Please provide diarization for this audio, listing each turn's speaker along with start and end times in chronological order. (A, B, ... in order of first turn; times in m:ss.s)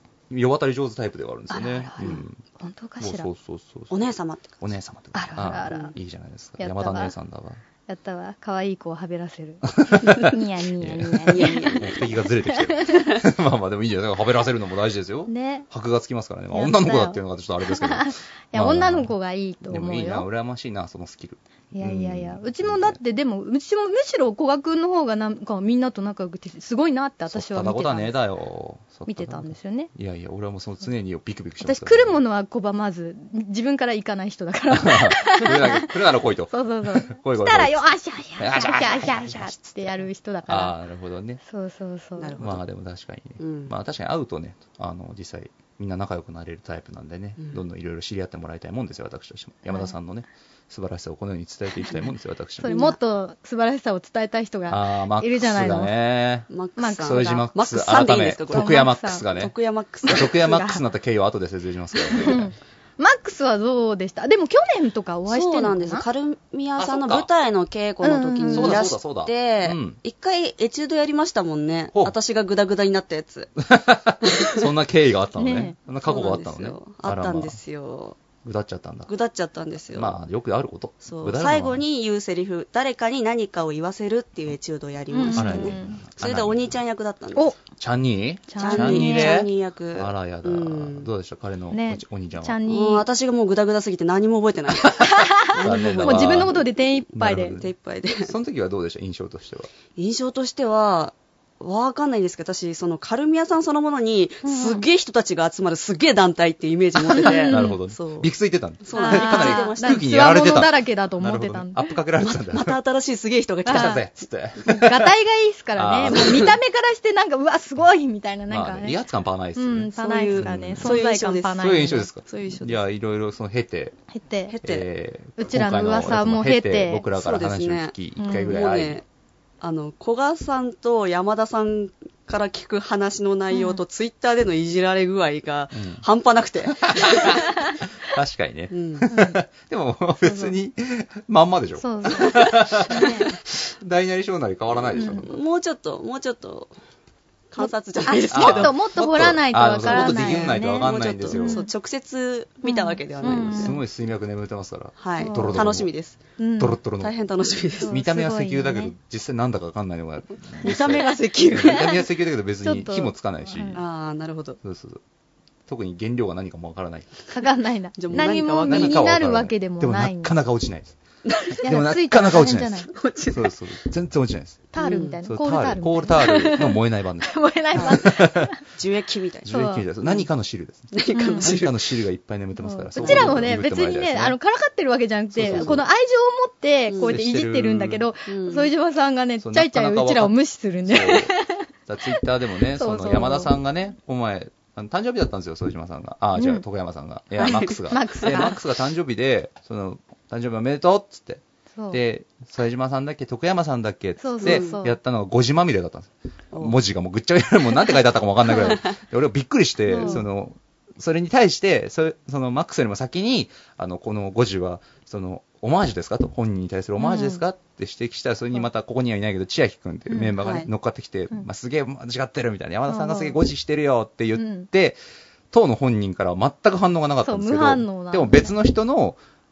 0:00.3-0:02.4 A
0:01.5-0:03.3 B
0:03.0-0:04.0 A
0:03.9-0:04.6 C
0:04.6-0:07.6 A
0:05.1-0:05.9 B
0:06.6-0:07.1 B
0:07.9-0:13.1 B
0:09.6-0:23.0 A
0:11.2-0:12.1 C
0:15.3-0:15.7 B
0:16.5-0:20.3 B
0:21.7-0:28.2 B
0:27.3-0:32.2 A
0:29.1-0:29.9 B
0:31.6-0:35.9 B
0:34.7-0:37.9 A
0:36.5-0:40.8 B
0:38.4-0:41.4 A
0:41.5-0:42.4 B
0:42.2-0:42.6 C
0:42.4-0:52.8 A
0:43.4-0:43.7 C
0:52.6-0:55.9 B
0:52.6-0:53.0 C
0:54.7-0:56.5 A
0:56.5-1:00.3 C
0:56.8-0:57.5 B
0:57.0-0:59.5 A
0:58.5-0:59.3 B
1:00.1-1:00.8 B
1:00.1-1:02.5 A
1:02.1-1:06.0 B
1:05.3-1:13.6 C
1:06.8-1:07.3 A
1:08.0-1:08.9 B
1:08.5-1:10.0 A
1:13.6-1:17.6 A
1:14.2-1:14.6 C
1:15.4-1:15.8 B
1:16.0-1:18.2 C
1:18.4-1:19.1 A
1:19.1-1:20.2 C
1:19.9-1:21.8 A
1:21.0-1:27.6 C
1:25.1-1:26.0 B
1:25.3-1:26.7 A
1:27.8-1:32.6 A
1:28.5-1:29.4 B
1:28.6-1:31.1 C
1:31.7-1:33.0 B
1:32.7-1:36.7 C
1:35.0-1:37.6 B
1:35.6-1:36.6 A
1:37.1-1:37.7 A
1:37.6-1:38.3 C
1:38.2-1:39.7 A
1:40.0-1:48.3 C
1:44.4-1:44.8 B
1:47.1-1:47.8 B
1:47.3-1:52.8 A
1:48.8-1:50.1 C
1:48.9-1:51.8 B
1:52.2-1:54.0 C
1:53.7-1:54.0 B
1:53.7-1:55.1 A
1:54.6-1:59.0 B
1:55.8-1:56.6 A
1:56.1-1:56.5 C
1:58.5-2:01.0 A
1:59.6-2:02.1 B
2:00.0-2:01.6 C
2:01.6-2:04.0 A
2:02.2-2:02.8 C
2:04.1-2:04.6 B
2:04.5-2:04.9 C
2:04.6-2:09.0 A
2:05.4-2:07.0 B
2:07.2-2:09.0 C
2:08.2-2:08.5 B
2:09.6-2:17.5 C
2:13.5-2:13.8 B
2:15.8-2:16.0 A
2:16.9-2:25.4 A
2:18.7-2:19.1 C
2:19.1-2:19.4 B
2:20.2-2:20.5 B
2:21.8-2:23.3 B
2:24.9-2:26.7 C
2:25.0-2:25.3 B
2:27.5-2:28.8 C
2:27.6-2:31.7 B
2:28.3-2:31.6 A
2:29.8-2:33.8 C
2:32.6-2:33.8 B
2:33.2-2:35.9 A
2:35.0-2:36.2 C
2:35.2-2:35.6 B
2:36.4-2:36.8 B
2:36.6-2:37.1 A
2:37.0-2:37.9 C
2:37.8-2:39.0 B
2:37.9-2:43.8 A
2:40.6-2:42.0 C
2:40.7-2:41.9 B
2:42.6-2:43.8 B
2:43.7-2:44.6 C
2:44.6-2:45.0 A
2:45.7-2:47.2 A
2:47.3-2:50.4 B
2:48.0-2:49.0 C
2:48.1-2:51.0 A
2:51.2-2:51.6 C
2:51.5-2:54.7 A
2:51.6-2:52.9 B
2:52.9-2:53.5 C
2:54.7-2:58.6 B
2:54.8-2:55.2 C
2:55.2-2:58.5 A
2:57.8-2:58.0 C
2:58.8-2:59.5 C
2:59.4-3:04.4 A
2:59.5-2:59.8 B
3:00.9-3:01.8 C
3:01.1-3:01.6 B
3:02.6-3:12.2 B
3:03.0-3:03.5 C
3:05.3-3:05.8 A
3:05.4-3:05.8 C
3:06.9-3:07.2 C
3:07.0-3:08.1 A
3:08.3-3:08.7 C
3:09.4-3:10.4 A
3:10.9-3:11.3 A
3:11.9-3:45.0 A
3:12.7-3:13.5 B
3:16.4-3:16.6 B
3:17.4-3:18.3 C
3:17.5-3:18.6 B
3:24.2-3:25.0 B
3:24.4-3:24.8 C
3:28.6-3:29.0 C
3:29.9-3:30.2 B
3:37.0-3:37.4 B
3:40.1-3:40.4 B
3:40.4-3:40.7 C
3:42.9-3:43.4 B
3:44.4-3:44.7 B
3:45.5-3:49.2 A
3:47.2-3:48.5 B